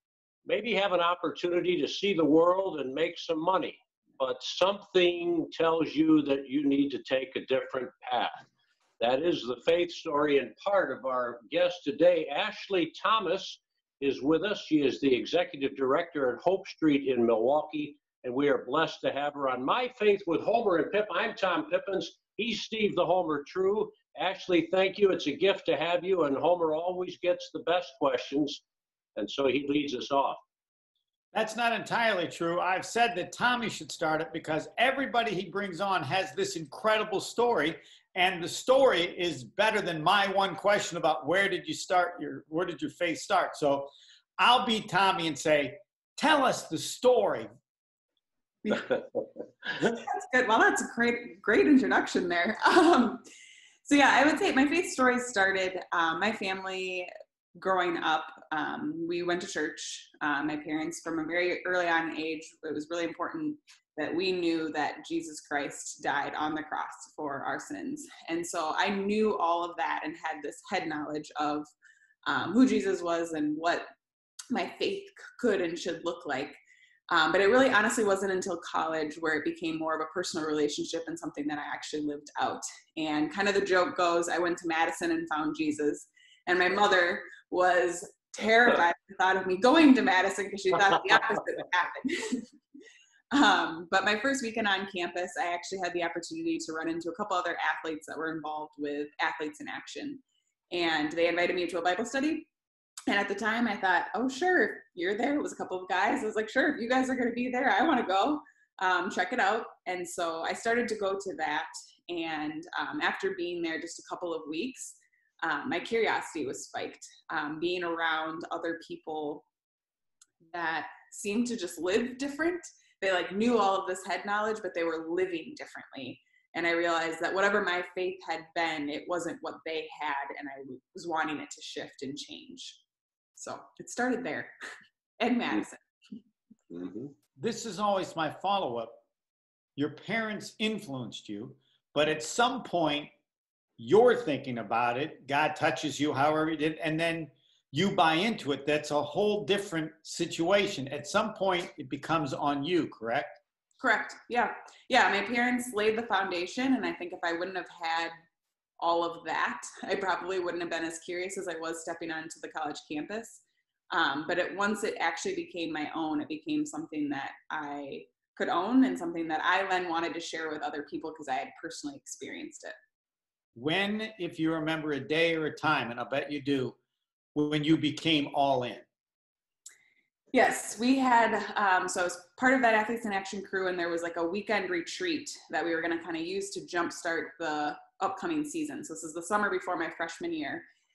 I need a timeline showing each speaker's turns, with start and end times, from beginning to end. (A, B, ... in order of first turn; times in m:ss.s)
0:00.5-0:08.5 A
0:09.0-0:28.6 A
0:29.2-0:30.4 A
0:31.3-0:47.5 B
0:48.6-0:49.0 C
0:49.9-0:53.2 C
0:53.9-1:11.7 C
1:12.3-1:13.9 C
1:14.5-1:16.6 C
1:17.1-1:32.5 C
1:33.3-1:40.2 C
1:40.7-1:42.5 C
1:43.1-1:59.4 C
2:00.5-2:12.8 C
2:13.4-2:14.5 C
2:15.2-2:15.8 C
2:16.7-2:17.1 A
2:17.4-2:19.0 B
2:19.8-2:23.1 B
2:23.8-2:33.4 B
2:33.8-2:38.1 C
2:38.8-2:52.7 C
2:53.5-2:56.8 B
2:57.3-2:58.8 B
3:00.3-3:10.6 C